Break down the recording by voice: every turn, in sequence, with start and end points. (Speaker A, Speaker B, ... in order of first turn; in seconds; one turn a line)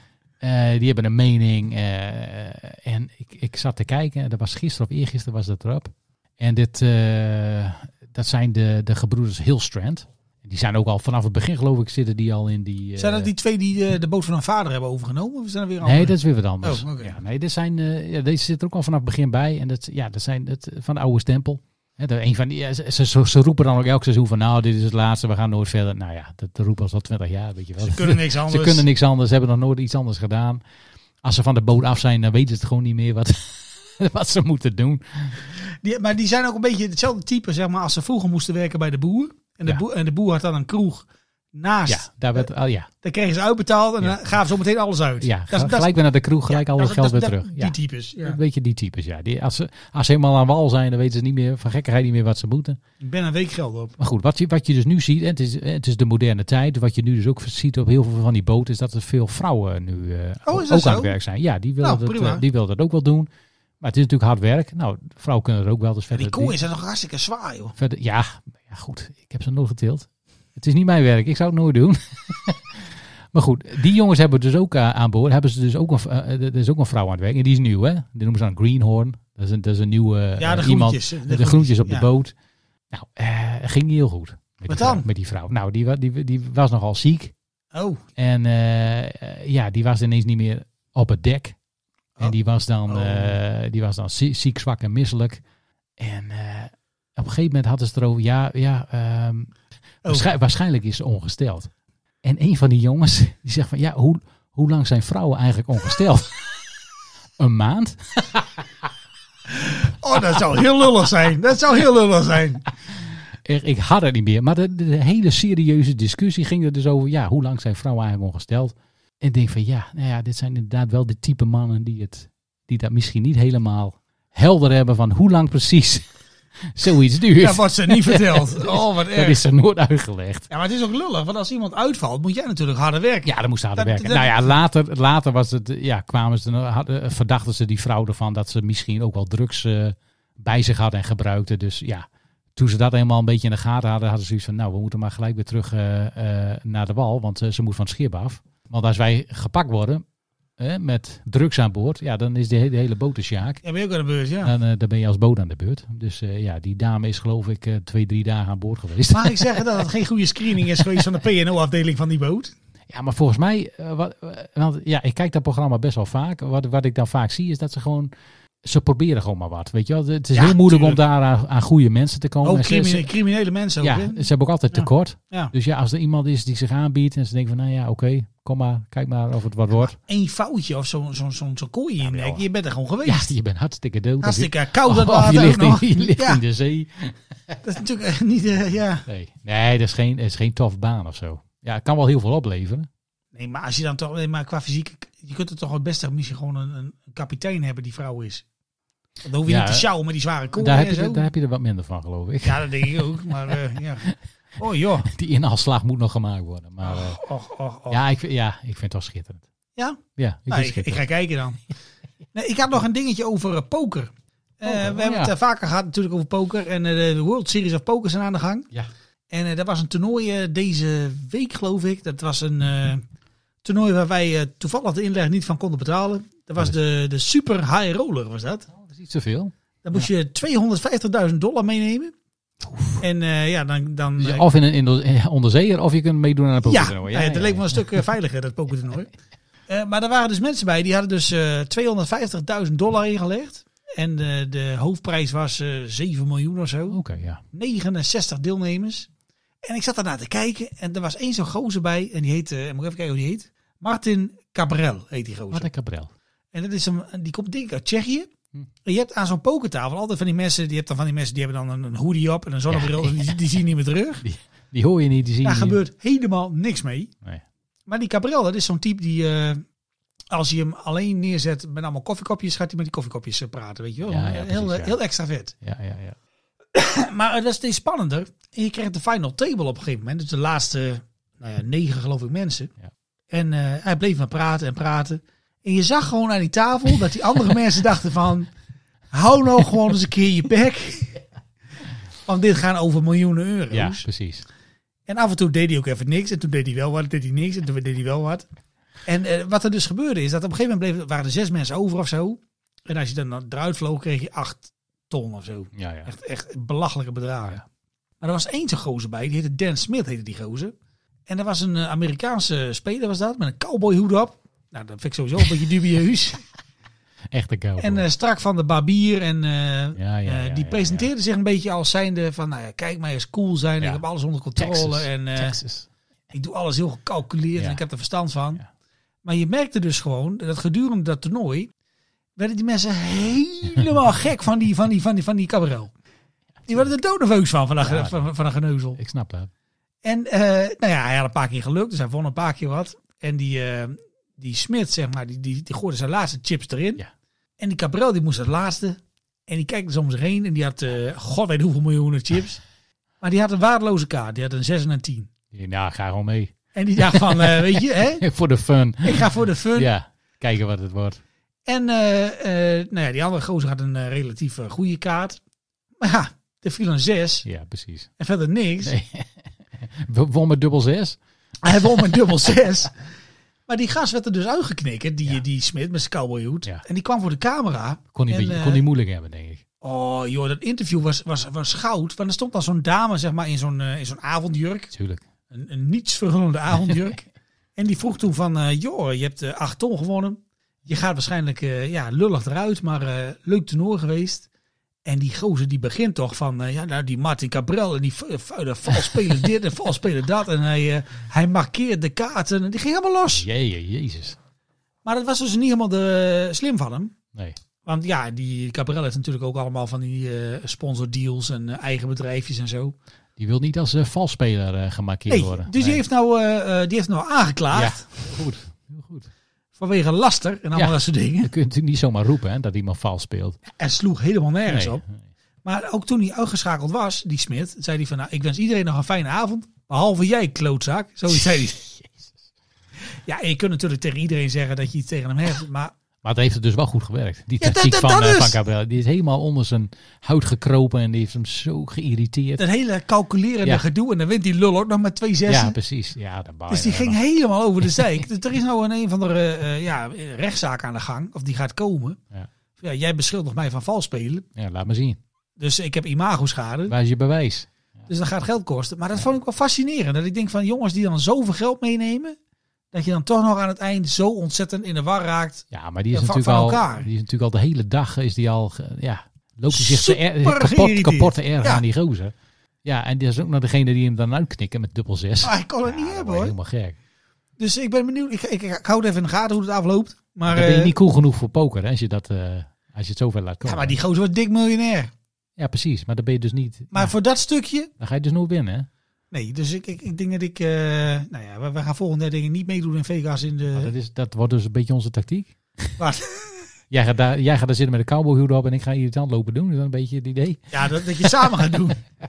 Speaker A: 0.4-13.3
Speaker B: 13.0-17.1
Speaker A: 15.8-30.6
Speaker B: 27.8-28.9
Speaker A: 31.2-35.5
Speaker B: 35.6-42.5
Speaker A: 41.9-42.9
Speaker B: 43.0-45.9
Speaker A: 44.0-44.4
Speaker A: 45.2-52.8
Speaker B: 46.5-48.4
Speaker B: 53.0-54.0
Speaker A: 54.0-63.3
Speaker B: 60.5-61.1
Speaker B: 61.8-62.4
Speaker A: 63.8-66.6
Speaker B: 66.1-67.7
Speaker A: 67.8-82.3
Speaker B: 80.4-82.1
Speaker A: 82.9-87.3
Speaker B: 84.7-85.1
Speaker B: 87.7-88.0
Speaker A: 88.2-91.5
Speaker A: 92.2-95.4
Speaker B: 92.9-93.4
Speaker A: 96.0-99.5
Speaker A: 100.0-101.7
Speaker A: 102.2-106.6
Speaker A: 107.4-108.5
Speaker B: 109.5-112.6
Speaker A: 113.4-126.1
Speaker A: 126.7-130.5
Speaker B: 127.3-129.4
Speaker B: 130.5-134.5
Speaker A: 133.2-150.0
Speaker A: 150.6-153.6
Speaker B: 153.6-154.5
Speaker A: 154.4-159.8
Speaker B: 159.1-162.5
Speaker A: 162.9-168.1
Speaker A: 168.6-173.1
Speaker B: 170.3-171.0
Speaker B: 172.4-175.5
Speaker A: 173.8-180.0
Speaker B: 179.8-183.3
Speaker A: 182.0-182.4
Speaker A: 183.0-187.6
Speaker B: 184.2-186.4
Speaker B: 187.6-189.0
Speaker A: 189.1-192.9
Speaker B: 193.3-198.4
Speaker B: 199.2-201.3
Speaker A: 199.4-199.9
Speaker A: 200.6-203.6
Speaker B: 202.4-205.1
Speaker A: 205.1-207.2
Speaker B: 206.8-208.0
Speaker A: 207.9-209.4
Speaker B: 209.8-211.6
Speaker A: 210.2-211.0
Speaker B: 212.3-218.7
Speaker A: 214.6-215.3
Speaker B: 219.3-223.0
Speaker B: 223.6-228.7
Speaker A: 228.7-230.1
Speaker B: 229.8-232.1
Speaker A: 232.6-233.0
Speaker B: 233.0-234.4
Speaker A: 234.2-237.9
Speaker B: 236.6-239.1
Speaker B: 239.7-247.0
Speaker A: 246.9-247.4
Speaker B: 247.5-249.1
Speaker B: 249.6-255.7
Speaker A: 255.5-256.1
Speaker B: 256.5-258.3
Speaker B: 258.8-264.2
Speaker A: 262.7-263.3
Speaker A: 264.2-265.8
Speaker B: 265.4-267.1
Speaker B: 267.9-269.6
Speaker B: 270.3-275.5
Speaker A: 274.1-275.0
Speaker A: 275.6-276.2
Speaker B: 276.7-282.7
Speaker B: 283.3-288.5
Speaker B: 289.1-291.2
Speaker B: 292.2-294.1
Speaker A: 293.7-294.4
Speaker B: 295.1-298.4
Speaker B: 299.0-307.6
Speaker A: 305.7-306.1
Speaker B: 308.2-310.7
Speaker B: 311.3-316.4
Speaker A: 317.3-318.1
Speaker B: 317.8-325.6
Speaker A: 319.9-321.1
Speaker A: 324.6-325.9
Speaker B: 326.3-328.6
Speaker A: 327.6-327.8
Speaker B: 329.2-331.7
Speaker B: 332.4-335.9
Speaker B: 336.7-339.0
Speaker A: 337.8-338.3
Speaker A: 338.9-339.5
Speaker B: 340.0-347.0
Speaker B: 347.6-352.6
Speaker B: 353.2-355.3
Speaker A: 355.5-361.2
Speaker B: 356.7-358.2
Speaker B: 359.0-359.9
Speaker B: 361.7-365.4
Speaker B: 366.0-367.4
Speaker A: 367.4-368.1
Speaker B: 368.2-368.9
Speaker A: 368.8-371.2
Speaker B: 371.6-372.9
Speaker B: 373.7-378.8
Speaker A: 378.1-379.6
Speaker B: 379.8-384.9
Speaker A: 384.9-385.2
Speaker B: 385.5-387.2
Speaker A: 386.9-387.1
Speaker B: 387.8-394.4
Speaker B: 395.0-403.4
Speaker A: 403.3-404.4
Speaker B: 405.0-407.1
Speaker B: 407.9-412.9
Speaker A: 413.4-416.0
Speaker B: 415.3-418.0
Speaker A: 417.7-419.3
Speaker B: 419.8-421.5
Speaker A: 420.7-423.6
Speaker B: 423.7-425.0
Speaker A: 424.6-425.1
Speaker B: 425.6-431.8
Speaker A: 431.8-432.3
Speaker B: 433.1-435.9
Speaker A: 436.2-442.6
Speaker B: 437.6-438.6
Speaker B: 442.6-445.8
Speaker A: 445.5-447.2
Speaker B: 446.7-452.2
Speaker A: 447.9-448.2
Speaker B: 452.8-454.4
Speaker A: 454.6-455.2
Speaker B: 455.6-456.9
Speaker A: 456.9-457.7
Speaker B: 458.1-462.4
Speaker B: 462.9-467.1
Speaker A: 465.7-477.0
Speaker B: 469.7-471.8
Speaker B: 475.4-476.5
Speaker B: 477.6-480.9
Speaker A: 480.5-484.0
Speaker B: 483.6-485.1
Speaker A: 485.6-487.1
Speaker B: 486.9-487.9
Speaker A: 488.0-488.9
Speaker B: 489.3-493.9
Speaker A: 493.7-496.0
Speaker B: 496.0-496.6
Speaker A: 496.9-501.6
Speaker B: 500.7-502.0